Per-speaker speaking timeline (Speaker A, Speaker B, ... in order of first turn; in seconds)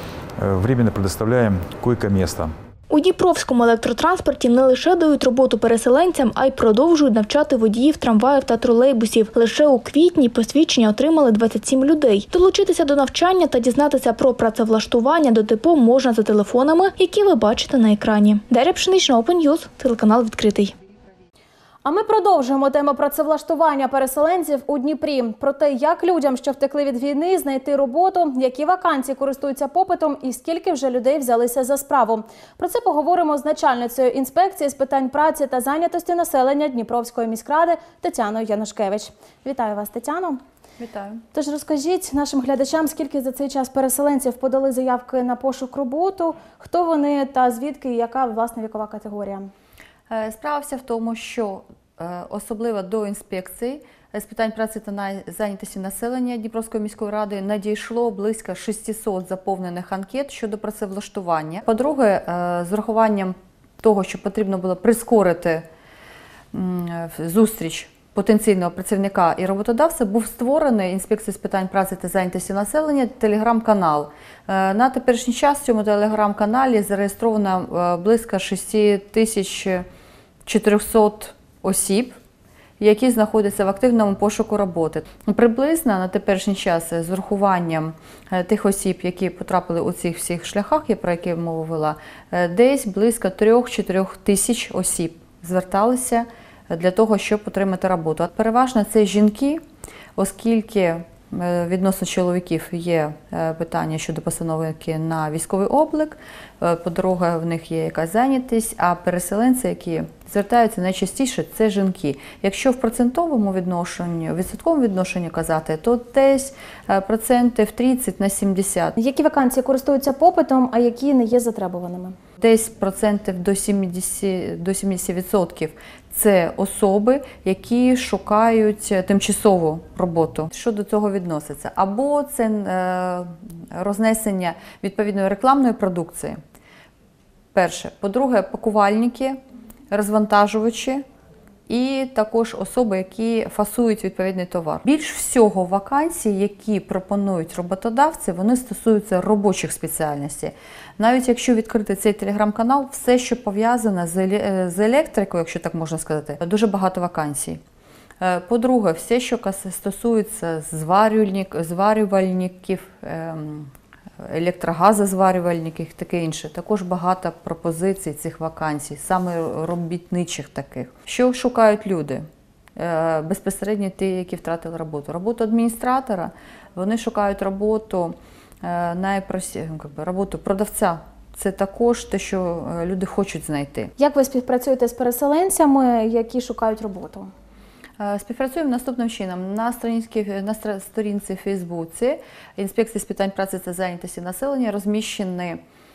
Speaker A: 0.4-2.5
Speaker B: 2.9-20.7
Speaker C: 21.8-40.4, 41.3-49.5, 119.0-122.1, 184.0-187.3
Speaker D: 40.8-41.2, 50.1-65.7, 66.5-79.8, 80.4-82.2, 82.8-99.6, 100.2-118.9, 122.4-136.4, 137.5-139.4, 139.9-141.0, 141.7-157.6, 158.2-163.7, 164.2-183.9, 188.0-195.6